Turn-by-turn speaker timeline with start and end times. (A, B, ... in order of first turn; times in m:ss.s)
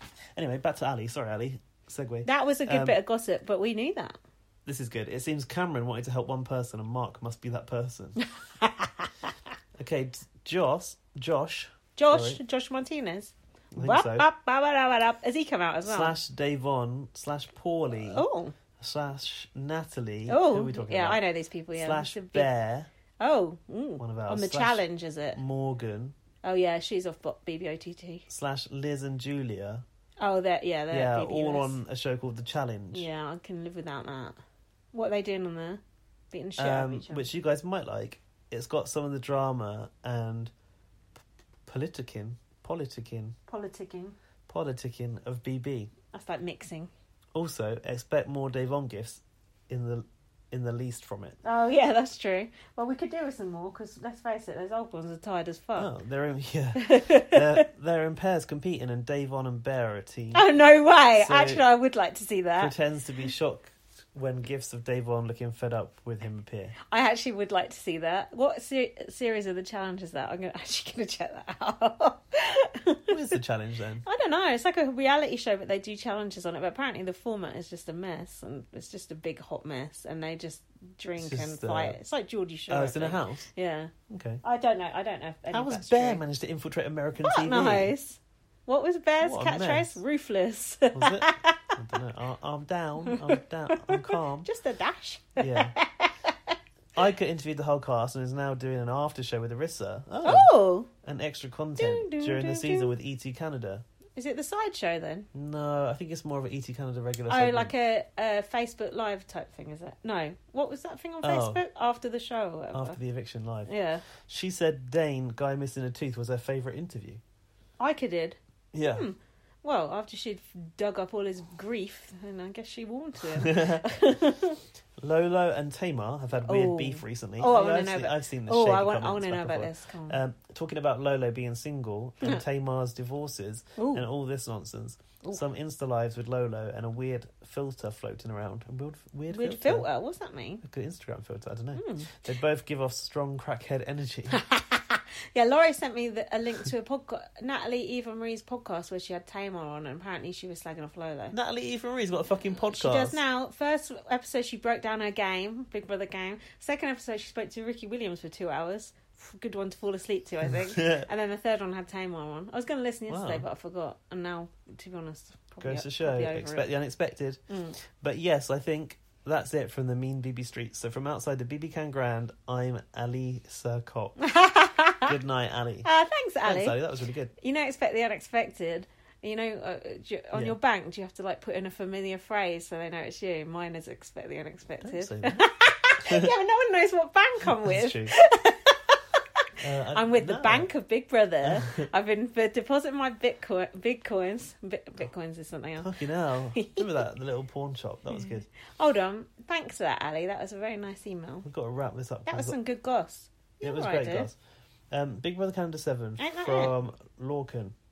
0:00.3-0:03.0 A
0:02.2-0:04.2 B
0:04.6-0:08.2 A
0:08.6-0:09.1 B
0:09.8-0:12.4 A
0:12.0-0:16.2 B
0:13.7-0:14.3 A
0:15.8-0:18.2 A
0:18.0-0:18.5 B
0:18.8-0:21.2 A
0:20.3-0:22.5 B
0:21.7-0:22.9 A
0:23.2-0:25.4 B
0:24.0-0:26.2 A
0:26.4-0:28.2 B
0:28.3-0:29.8 A
0:30.2-0:31.8 B
0:30.9-0:33.1 A
0:32.9-0:34.4 B
0:34.9-0:37.2 B
0:36.6-0:40.5 A
0:41.6-0:43.4 A
0:43.5-0:44.2 B
0:44.5-0:45.9 A
0:46.1-0:46.9 B
0:47.3-0:51.4 A
0:51.4-0:55.9 B
0:55.8-1:00.5 A
0:56.8-0:57.6 B
1:00.3-1:02.7 B
1:01.2-1:01.7 A
1:02.6-1:06.8 A
1:06.9-1:13.1 B
1:13.1-1:14.0 A
1:14.0-1:26.2 B
1:21.2-1:22.0 A
1:22.7-1:23.5 A
1:24.1-1:24.4 A
1:25.5-1:27.9 A
1:27.2-1:31.7 B
1:29.2-1:30.0 A
1:30.9-1:34.5 A
1:33.1-1:36.5 B
1:35.4-1:35.7 A
1:36.9-1:43.8 A
1:40.2-1:40.9 B
1:41.8-1:42.9 B
1:44.2-1:45.3 B
1:45.3-1:47.7 A
1:47.3-1:53.0 B
1:51.2-1:51.6 A
1:52.7-1:57.2 A
1:53.6-1:54.0 B
1:57.8-1:58.4 B
1:58.7-1:59.1 A
1:58.9-2:04.6 B
2:03.3-2:03.8 A
2:05.0-2:19.9 A
2:06.4-2:10.2 B
2:13.8-2:14.0 B
2:19.3-2:20.6 B
2:20.6-2:24.4 A
2:21.8-2:22.1 B
2:24.3-2:31.4 B
2:31.3-2:33.2 A
2:32.7-2:46.7 B
2:40.7-2:41.1 A
2:43.1-2:43.4 A
2:45.6-2:54.2 A
2:47.5-2:47.8 B
2:54.2-2:55.1 B
2:55.0-2:55.9 A
2:55.8-2:56.8 B
2:56.4-2:57.3 A
2:57.4-3:09.0 B
3:04.8-3:06.3 A
3:07.6-3:08.1 A
3:09.6-3:10.7 A
3:09.9-3:15.9 B
3:11.4-3:11.8 A
3:15.8-3:18.5 A
3:16.6-3:16.8 B
3:18.1-3:21.4 B
3:21.4-3:22.6 A
3:22.2-3:24.3 B
3:23.6-3:24.4 A
3:24.9-3:27.7 A
3:26.2-3:26.7 B